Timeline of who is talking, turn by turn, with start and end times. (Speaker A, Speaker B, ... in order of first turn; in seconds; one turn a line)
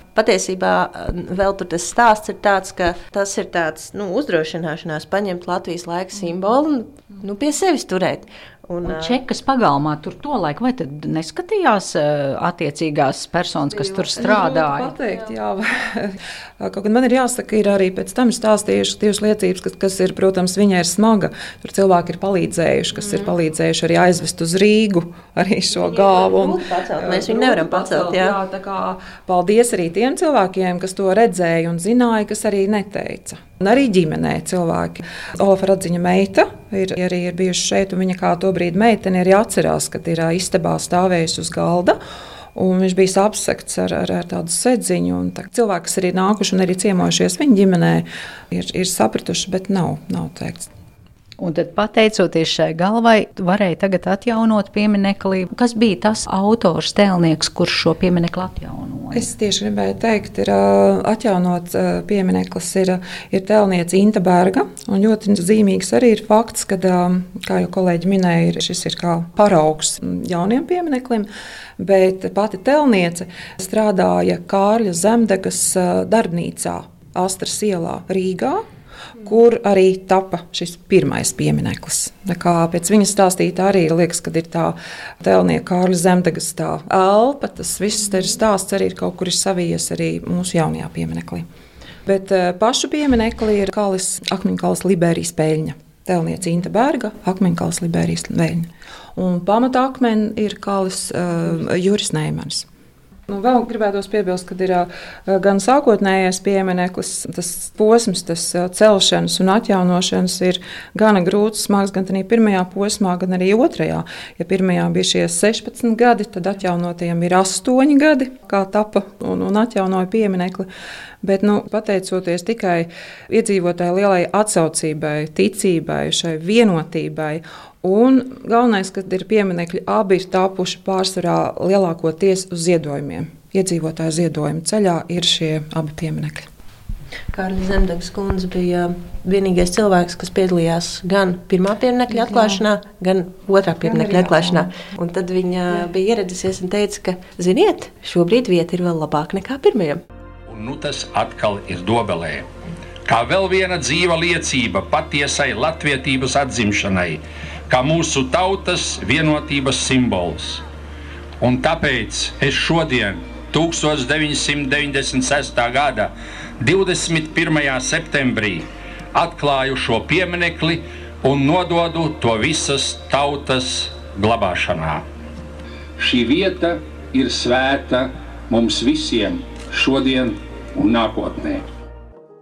Speaker A: 0.1-9.2
Speaker B: 8.8-14.9
Speaker C: 13.7-42.0
Speaker A: 23.0-23.3
Speaker A: 25.7-28.4
Speaker C: 42.5-50.7
Speaker B: 51.4-59.3
Speaker C: 59.1-71.3
Speaker C: 71.8-78.6
Speaker C: 79.2-91.5
Speaker C: 92.1-102.7
Speaker C: 103.3-120.7
Speaker C: 121.2-136.5
Speaker A: 137.3-150.0
Speaker C: 142.1-142.6
Speaker C: 143.8-144.8
Speaker D: 150.5-152.5
Speaker D: 153.1-160.6
Speaker D: 161.4-175.0
Speaker D: 176.0-181.6